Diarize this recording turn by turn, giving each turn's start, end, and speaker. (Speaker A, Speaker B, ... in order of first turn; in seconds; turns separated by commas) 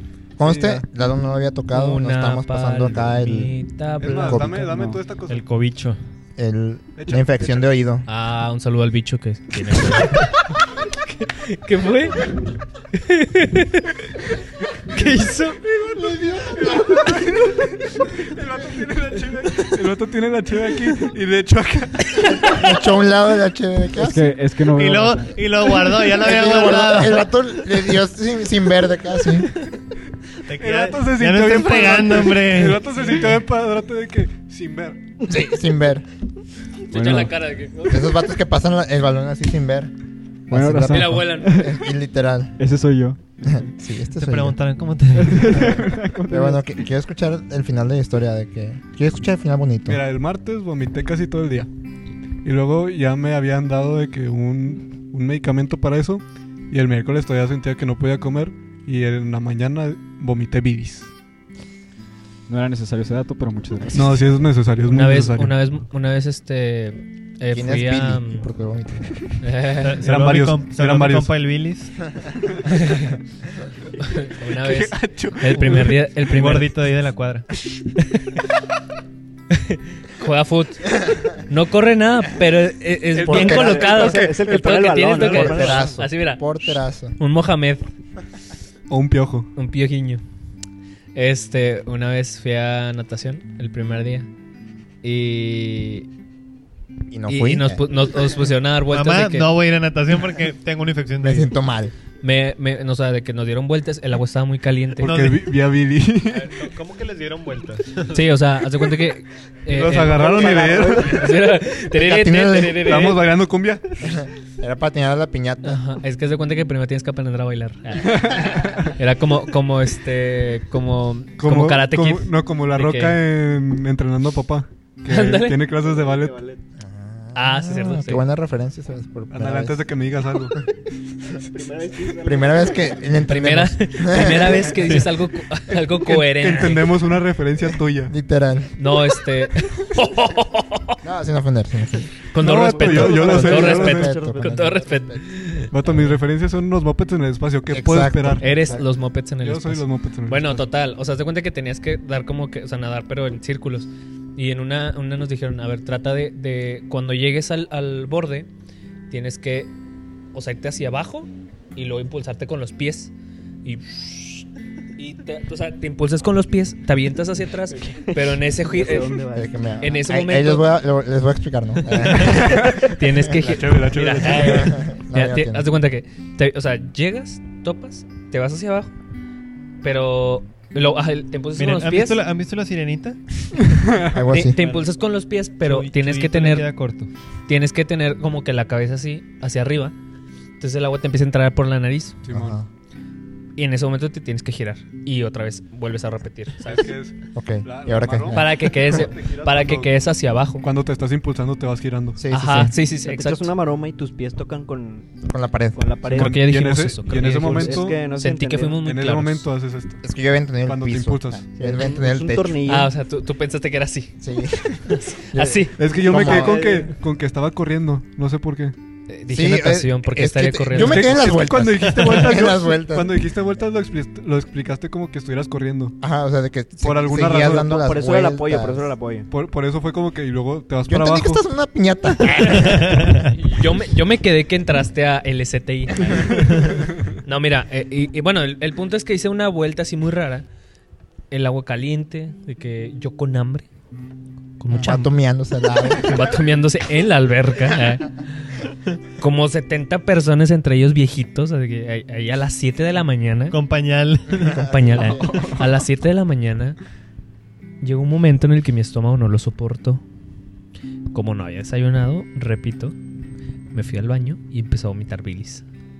Speaker A: 0.4-3.6, Speaker B: 0.4-0.8, Speaker C: 1.7-4.6, Speaker B: 4.0-5.5, Speaker A: 4.3-5.0, Speaker D: 5.3-6.0, Speaker A: 6.4-8.1, Speaker B: 7.0-7.7, Speaker C: 8.1-12.3, Speaker C: 12.9-13.9, Speaker C: 14.9-15.6, Speaker B: 15.8-22.6, Speaker A: 16.2-17.0, Speaker A: 22.4-24.2, Speaker E: 23.9-25.3, Speaker D: 24.7-27.3, Speaker A: 26.1-29.5, Speaker D: 30.4-33.4, Speaker B: 30.6-35.0, Speaker A: 35.3-36.1, Speaker C: 36.9-38.2, Speaker E: 36.9-37.4, Speaker A: 37.9-39.9, Speaker A: 40.5-42.5, Speaker E: 40.5-41.8, Speaker C: 40.9-41.7, Speaker E: 42.6-43.5, Speaker A: 43.4-44.6, Speaker D: 44.1-45.9, Speaker E: 45.2-46.6, Speaker A: 46.3-50.0, Speaker B: 49.9-51.7, Speaker B: 52.4-61.1, Speaker E: 62.5-64.3, Speaker B: 63.9-65.6, Speaker C: 64.9-68.5, Speaker A: 67.5-69.1, Speaker C: 69.4-70.1, Speaker D: 69.8-72.0, Speaker B: 70.0-71.3, Speaker C: 72.7-73.1, Speaker C: 74.0-76.7, Speaker B: 74.5-76.0, Speaker D: 75.7-77.5, Speaker C: 79.5-80.9, Speaker C: 81.4-87.9, Speaker B: 83.1-85.6, Speaker A: 83.3-83.8, Speaker F: 83.4-86.0, Speaker A: 85.6-87.2, Speaker B: 88.9-89.5, Speaker C: 89.6-90.2, Speaker C: 91.1-94.3, Speaker C: 95.0-96.1, Speaker A: 97.1-97.8, Speaker C: 97.3-99.5, Speaker D: 98.9-101.5, Speaker A: 101.2-101.9, Speaker C: 102.2-105.1, Speaker B: 105.0-106.5, Speaker D: 105.0-105.6, Speaker D: 106.3-108.3, Speaker C: 108.1-113.2, Speaker B: 109.7-111.3, Speaker F: 110.1-111.3, Speaker A: 111.9-113.0, Speaker B: 112.8-113.9, Speaker A: 114.0-115.8, Speaker C: 115.6-123.2, Speaker B: 118.1-118.9, Speaker B: 121.4-126.4, Speaker C: 125.1-125.6, Speaker F: 125.7-126.6, Speaker A: 126.8-129.9, Speaker C: 127.3-128.2, Speaker B: 129.3-130.6, Speaker F: 131.5-133.1, Speaker A: 132.1-135.0, Speaker C: 133.2-136.9, Speaker B: 136.0-138.1, Speaker A: 138.1-138.7, Speaker C: 138.8-141.0, Speaker A: 141.0-142.2, Speaker C: 142.3-145.7, Speaker B: 142.4-144.1, Speaker F: 142.5-144.6, Speaker A: 143.3-145.2, Speaker B: 145.7-150.7, Speaker A: 147.7-148.8, Speaker C: 148.4-158.5, Speaker C: 159.1-159.7, Speaker C: 160.3-163.1, Speaker C: 163.6-169.2, Speaker F: 167.9-170.0, Speaker A: 169.3-173.1, Speaker C: 169.8-170.7, Speaker B: 172.1-174.8, Speaker C: 172.3-178.9, Speaker A: 174.4-175.7, Speaker C: 179.8-182.2, Speaker D: 181.6-183.2, Speaker B: 183.8-184.1, Speaker A: 184.0-184.6, Speaker C: 184.3-186.7, Speaker D: 184.6-184.9, Speaker D: 185.6-187.1, Speaker C: 187.5-189.9, Speaker C: 190.6-192.2, Speaker B: 192.2-192.6, Speaker A: 192.3-192.7, Speaker C: 193.6-196.9, Speaker B: 196.6-199.9, Speaker A: 197.3-199.0, Speaker C: 198.3-200.7, Speaker B: 200.6-202.2, Speaker A: 202.2-202.8, Speaker C: 202.3-203.5, Speaker F: 203.0-205.1, Speaker A: 205.3-205.9, Speaker F: 205.8-206.4, Speaker B: 206.1-208.1, Speaker C: 206.1-209.5, Speaker F: 207.1-208.8, Speaker B: 208.8-210.0, Speaker A: 210.0-212.6, Speaker B: 210.6-211.5, Speaker F: 211.6-212.9, Speaker C: 212.7-214.2, Speaker A: 214.2-216.6, Speaker C: 214.9-215.8, Speaker B: 215.8-218.8, Speaker F: 216.1-216.9, Speaker C: 219.1-221.4, Speaker A: 219.3-223.2, Speaker B: 220.7-225.9, Speaker A: 226.0-228.9, Speaker B: 226.8-227.7, Speaker F: 227.6-229.3, Speaker B: 229.3-231.4, Speaker A: 230.9-233.2, Speaker C: 233.2-236.7, Speaker C: 237.2-240.4, Speaker C: 241.3-243.7, Speaker C: 244.6-245.1, Speaker A: 244.7-246.1, Speaker C: 246.0-248.1, Speaker C: 249.2-253.6, Speaker D: 253.5-254.7, Speaker A: 254.4-255.6, Speaker C: 254.6-256.8, Speaker C: 257.8-260.0, Speaker C: 261.1-263.0, Speaker C: 263.7-265.6